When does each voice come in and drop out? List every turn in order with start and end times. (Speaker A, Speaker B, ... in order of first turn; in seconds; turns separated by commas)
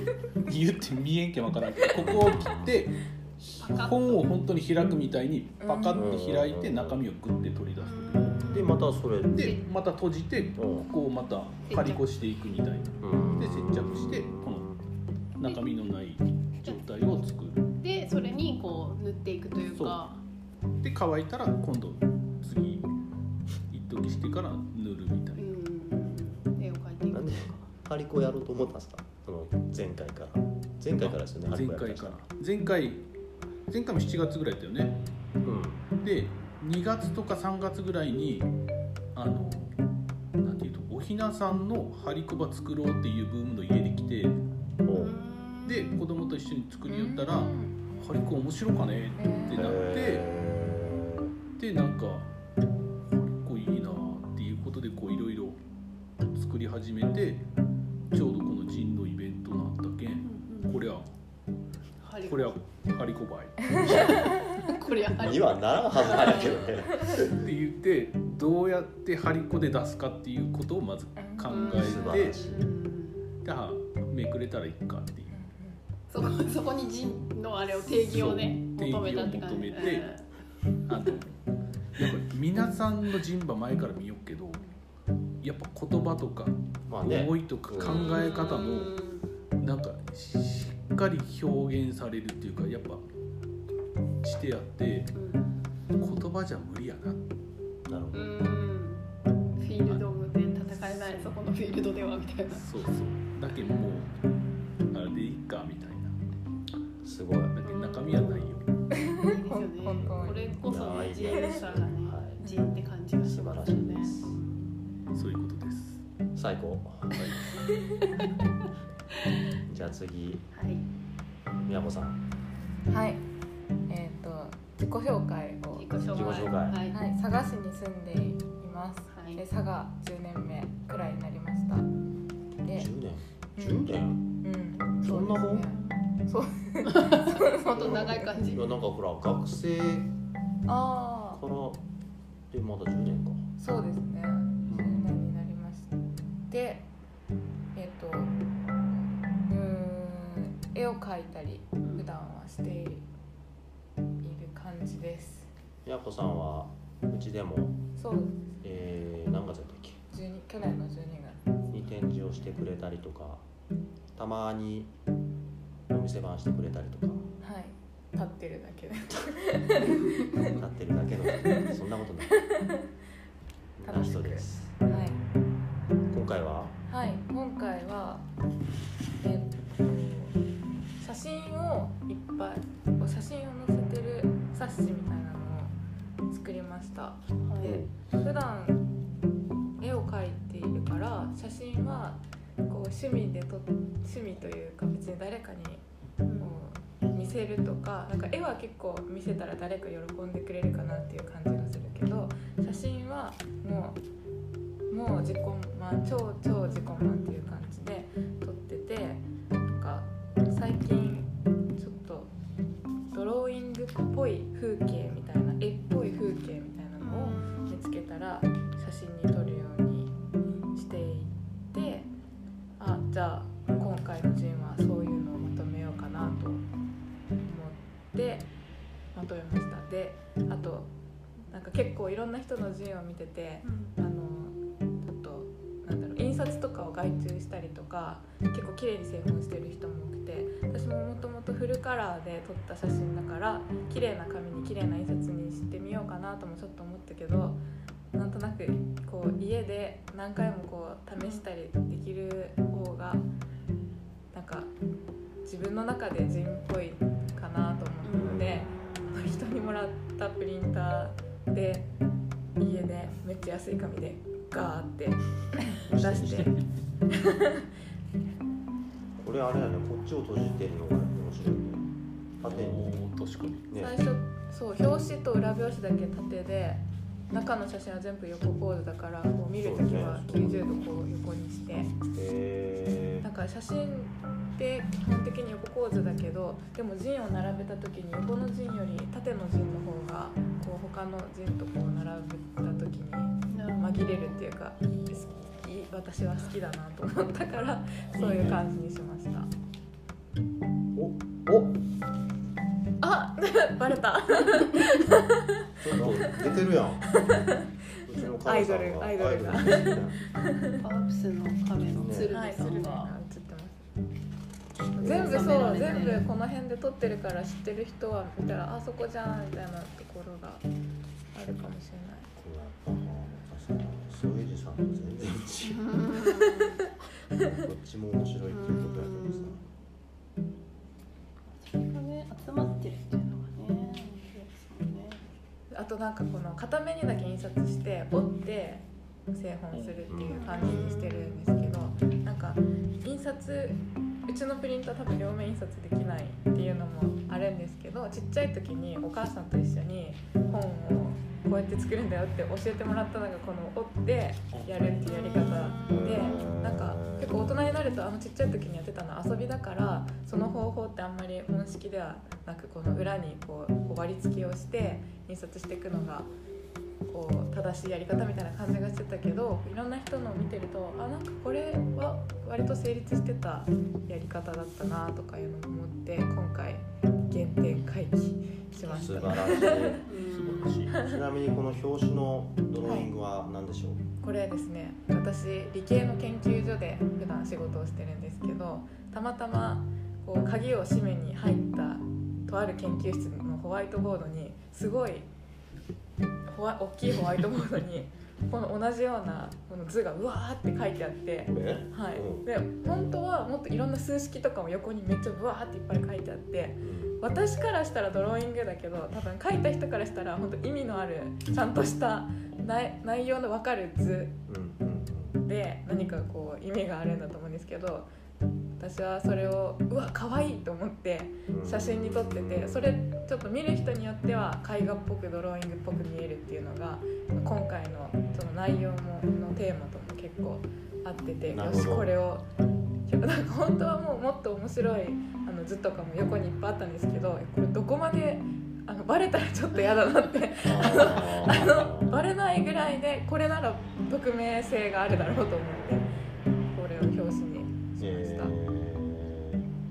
Speaker A: 0.4-8.6, Speaker B: 1.9-2.8, Speaker C: 3.6-4.3, Speaker D: 5.6-6.1, Speaker B: 5.9-7.0, Speaker C: 7.8-8.8, Speaker B: 8.5-9.5, Speaker A: 9.3-14.8, Speaker C: 9.4-9.6, Speaker B: 10.6-10.9, Speaker C: 11.7-12.0, Speaker B: 13.0-14.8, Speaker A: 15.4-17.7, Speaker C: 16.6-17.2, Speaker C: 17.8-20.2, Speaker A: 19.7-20.1, Speaker A: 20.8-22.9, Speaker A: 23.7-25.5, Speaker C: 25.4-27.7, Speaker B: 27.1-32.2, Speaker A: 31.0-33.0, Speaker A: 33.7-35.0, Speaker B: 35.4-35.8, Speaker A: 36.0-38.5, Speaker A: 39.1-39.8, Speaker A: 40.4-44.4, Speaker B: 44.8-45.1, Speaker C: 44.9-45.9, Speaker A: 45.6-50.3, Speaker D: 46.9-47.8, Speaker D: 49.2-49.8, Speaker B: 49.5-51.3, Speaker A: 51.6-52.3, Speaker A: 53.0-55.6, Speaker A: 56.3-57.4, Speaker A: 58.1-61.1, Speaker C: 60.2-60.8, Speaker C: 62.0-62.6, Speaker A: 62.2-64.3, Speaker D: 63.8-64.7, Speaker C: 63.8-66.8, Speaker B: 63.8-64.2, Speaker B: 65.2-67.4, Speaker A: 67.1-72.5, Speaker D: 71.2-71.8, Speaker C: 71.5-73.3, Speaker B: 71.8-72.7, Speaker A: 73.4-75.4, Speaker D: 75.3-75.8, Speaker C: 76.1-80.3, Speaker A: 77.7-80.1, Speaker A: 80.8-81.4, Speaker A: 82.0-84.6, Speaker A: 85.4-89.0, Speaker B: 86.9-88.2, Speaker C: 87.8-89.3, Speaker A: 89.6-93.0, Speaker A: 94.2-95.2, Speaker C: 95.1-95.5, Speaker A: 96.0-97.3, Speaker B: 97.8-98.3, Speaker C: 98.1-99.0, Speaker C: 99.6-102.6, Speaker A: 102.5-104.2, Speaker A: 104.9-106.2, Speaker B: 107.0-107.5, Speaker A: 107.5-108.7, Speaker C: 107.6-108.2, Speaker B: 108.1-108.6, Speaker D: 108.9-111.6, Speaker C: 109.0-114.7, Speaker B: 110.0-112.4, Speaker B: 113.2-114.4, Speaker A: 115.1-116.0, Speaker B: 116.3-117.2, Speaker A: 117.1-117.4, Speaker B: 119.7-120.4, Speaker C: 120.5-120.8, Speaker B: 121.6-122.2, Speaker D: 122.9-123.2, Speaker D: 123.9-131.9, Speaker C: 125.7-127.0, Speaker B: 126.1-126.8, Speaker C: 129.1-129.4, Speaker D: 132.6-132.9, Speaker B: 132.7-134.3, Speaker D: 133.6-138.1, Speaker B: 135.0-135.7, Speaker C: 135.7-136.1, Speaker C: 136.8-138.7, Speaker B: 137.7-140.1, Speaker D: 140.7-141.4, Speaker B: 141.3-141.8, Speaker B: 142.5-143.5, Speaker D: 143.6-145.9, Speaker A: 144.6-144.9, Speaker B: 144.7-145.1, Speaker D: 146.5-146.9, Speaker D: 147.7-148.3, Speaker D: 149.5-153.0, Speaker C: 151.8-152.1, Speaker D: 154.2-155.5, Speaker B: 155.8-157.8, Speaker D: 158.0-158.5, Speaker B: 158.6-160.0, Speaker D: 160.1-161.4, Speaker B: 161.7-163.4, Speaker B: 164.2-164.9, Speaker B: 165.9-167.2, Speaker D: 167.4-170.5, Speaker B: 170.4-172.3, Speaker D: 171.4-171.7, Speaker D: 172.3-172.9, Speaker B: 173.8-174.7, Speaker D: 173.8-175.2, Speaker B: 176.1-176.8, Speaker D: 176.9-178.3, Speaker D: 179.2-180.4, Speaker D: 181.0-185.7, Speaker D: 186.3-187.2, Speaker C: 187.4-187.8, Speaker B: 187.6-187.9, Speaker D: 188.2-188.8, Speaker D: 189.8-195.8, Speaker C: 196.2-196.6, Speaker D: 196.4-204.0, Speaker D: 204.9-212.3, Speaker D: 213.1-220.1, Speaker C: 217.0-217.7, Speaker D: 220.7-222.1, Speaker D: 222.8-226.6, Speaker D: 227.4-228.5, Speaker D: 229.1-230.9, Speaker D: 231.5-247.6, Speaker C: 233.6-233.9, Speaker D: 248.1-253.3, Speaker C: 251.2-251.4, Speaker D: 254.3-254.7, Speaker D: 255.4-261.9, Speaker C: 258.0-259.3, Speaker B: 258.1-258.7, Speaker D: 262.6-266.6, Speaker B: 265.9-266.5, Speaker D: 267.1-267.6, Speaker B: 269.2-271.8, Speaker B: 272.4-273.0, Speaker A: 272.4-273.7, Speaker B: 273.7-274.0, Speaker D: 273.8-281.9, Speaker B: 279.6-280.8, Speaker B: 282.1-283.2, Speaker D: 283.2-299.5, Speaker C: 293.5-294.4, Speaker B: 295.1-295.6, Speaker B: 298.1-298.6, Speaker B: 300.9-301.8, Speaker D: 303.0-306.2, Speaker B: 305.8-307.2, Speaker D: 307.1-307.6, Speaker B: 308.0-310.2, Speaker D: 308.3-310.8, Speaker C: 310.8-313.1, Speaker B: 311.9-312.3, Speaker D: 312.3-313.8, Speaker B: 314.9-316.0, Speaker D: 314.9-320.6, Speaker C: 315.1-316.2, Speaker D: 321.3-322.3, Speaker B: 322.4-325.9, Speaker C: 325.6-326.8, Speaker B: 327.4-329.6, Speaker C: 328.5-329.6, Speaker C: 331.6-335.2, Speaker D: 335.7-366.3, Speaker A: 339.7-340.1, Speaker B: 340.1-340.8, Speaker C: 340.3-341.4, Speaker A: 354.5-354.9, Speaker C: 355.0-356.4, Speaker B: 355.9-357.9, Speaker D: 367.1-380.0, Speaker B: 378.8-380.1, Speaker C: 380.1-380.8, Speaker A: 380.2-380.9, Speaker D: 380.9-381.2, Speaker B: 381.0-384.0, Speaker D: 382.8-383.1, Speaker D: 384.2-395.3, Speaker D: 396.5-414.4, Speaker B: 401.4-402.4, Speaker B: 406.8-407.2, Speaker B: 414.5-415.4, Speaker D: 415.4-418.1, Speaker D: 418.8-432.4, Speaker B: 421.5-422.9, Speaker B: 431.5-432.1, Speaker D: 433.1-446.1, Speaker B: 440.6-442.2, Speaker D: 446.7-448.6, Speaker B: 448.0-449.7